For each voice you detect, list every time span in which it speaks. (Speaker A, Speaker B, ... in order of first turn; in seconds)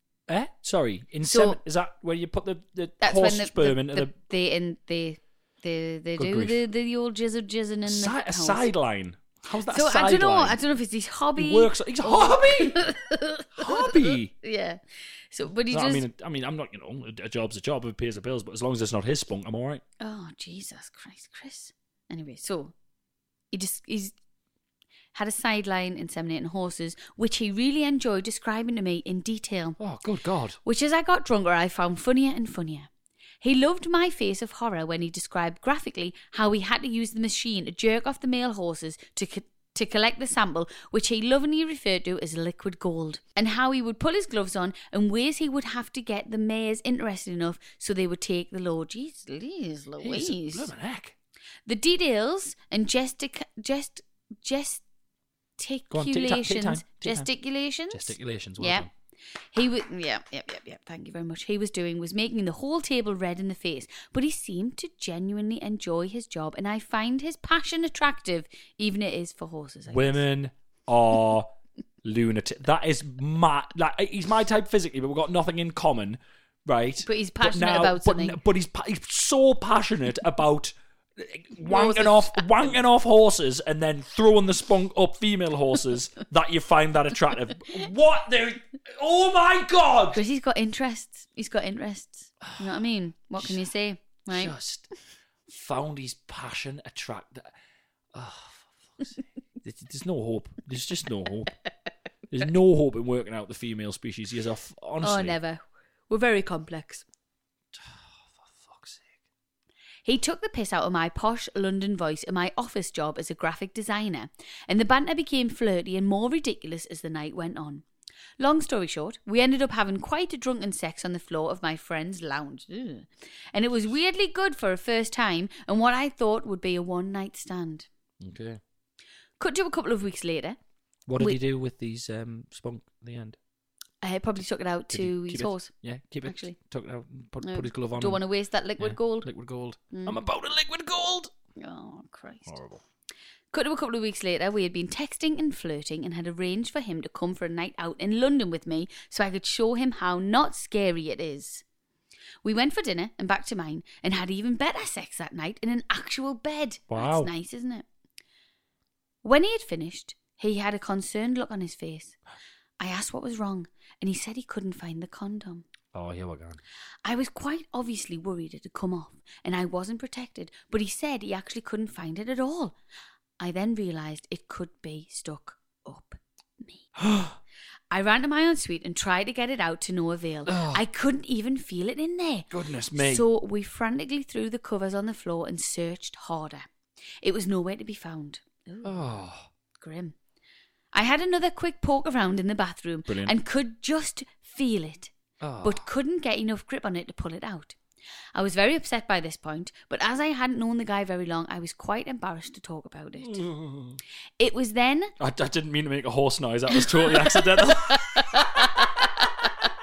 Speaker A: 0.3-4.1, 6.2-6.6, 7.8-10.6, 11.4-12.9, 13.6-14.3, 15.7-19.8, 29.8-30.6, 50.0-51.1, 55.9-57.3, 57.9-58.9, 69.9-71.5, 72.0-90.2, 92.4-92.8, 94.3-94.9, 95.5-97.5, 98.1-101.5, 102.3-105.4, 107.7-109.2, 128.2-128.6, 131.1-133.4, 134.9-138.2, 138.8-141.3, 142.5-142.8, 156.9-157.3, 165.9-166.6, 177.0-177.4, 180.5-180.8, 182.5-183.3, 188.8-189.5, 193.1-193.3, 195.4-195.8, 203.2-204.0, 205.2-209.7
Speaker B: 1.3-1.6, 3.0-8.7, 9.7-14.8, 15.3-16.1, 20.0-22.7, 23.5-24.1, 25.1-29.8, 30.6-32.9, 33.4-50.7, 51.7-54.8, 55.6-58.9, 59.5-70.2, 77.0-78.4, 81.6-82.8, 90.1-94.5, 105.0-107.0, 110.1-117.8, 118.4-127.9, 129.4-130.6, 134.0-135.7, 136.2-136.6, 137.4-139.3, 139.9-140.2, 141.6-142.6, 143.5-151.6, 152.4-157.8, 159.2-162.2, 162.8-165.7, 167.0-172.7, 173.4-176.9, 177.9-186.7, 187.2-189.1, 189.8-190.2, 190.9-195.1, 195.6-197.8, 198.3-203.4, 204.4-205.1, 206.9-207.3, 207.9-209.7